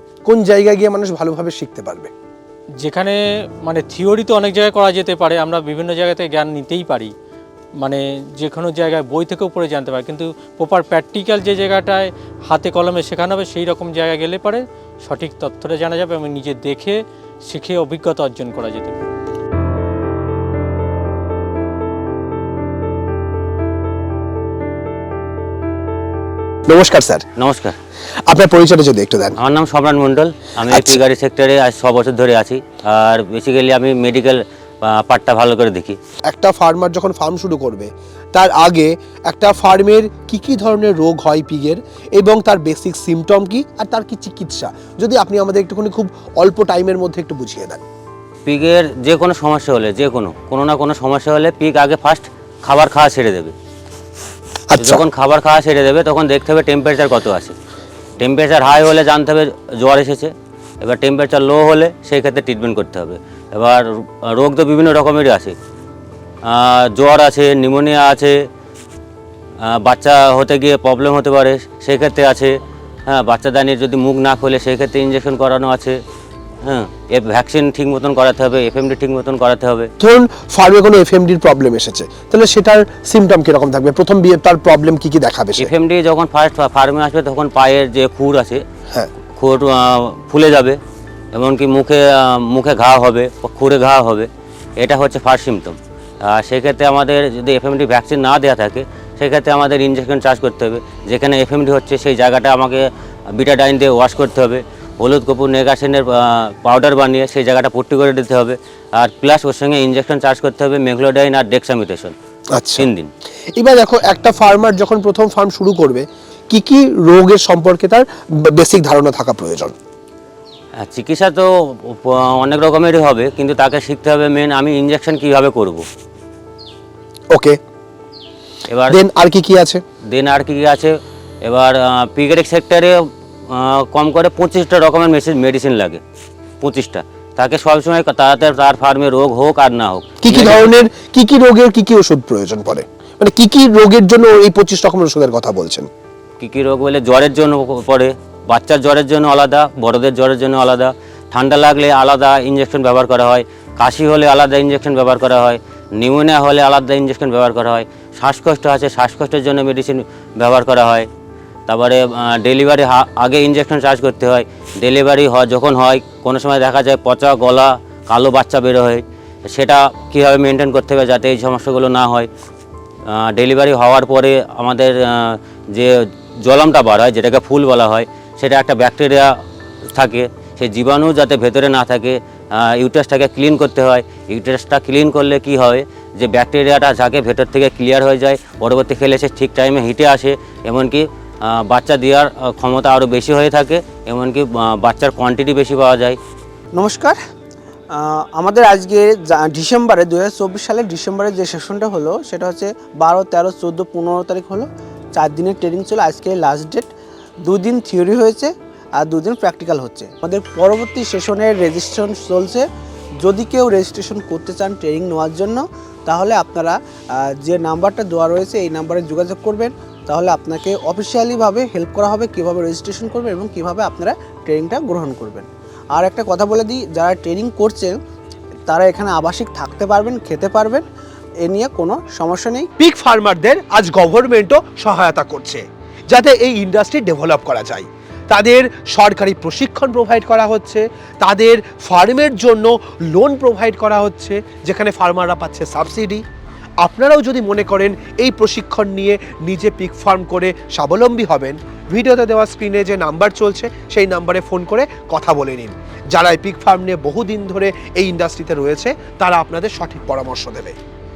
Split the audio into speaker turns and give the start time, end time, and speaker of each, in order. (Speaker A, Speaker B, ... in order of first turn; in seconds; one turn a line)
Speaker A: 0.2-2.1
Speaker B: 2.8-7.1
Speaker B: 7.8-19.0
Speaker A: 26.7-27.2
Speaker C: 27.4-27.8
Speaker A: 28.3-29.4
Speaker C: 29.4-36.0
Speaker A: 30.7-31.0
Speaker A: 36.2-47.8
Speaker C: 48.5-53.5
Speaker A: 54.7-55.0
Speaker C: 54.8-57.5
Speaker C: 58.2-65.5
Speaker C: 66.4-68.4
Speaker C: 69.6-72.5
Speaker C: 73.1-76.0
Speaker C: 76.6-79.9
Speaker A: 80.0-85.7
Speaker C: 85.6-88.6
Speaker C: 89.3-90.8
Speaker C: 91.3-112.1
Speaker A: 112.5-112.9
Speaker C: 112.8-113.1
Speaker A: 113.5-119.7
Speaker C: 120.8-125.8
Speaker A: 127.3-127.6
Speaker C: 128.7-128.9
Speaker A: 128.9-129.8
Speaker C: 130.1-133.0
Speaker C: 133.5-136.0
Speaker C: 136.6-140.6
Speaker A: 140.2-145.9
Speaker C: 146.4-161.1
Speaker C: 161.7-172.3
Speaker C: 173.1-179.3
Speaker C: 179.9-196.2
Speaker D: 196.7-197.2
Speaker D: 197.9-206.9
Speaker D: 207.4-212.7
Speaker D: 213.2-228.0
Speaker D: 228.7-230.8
Speaker D: 231.4-232.7
Speaker A: 232.8-246.2
Speaker A: 246.8-260.8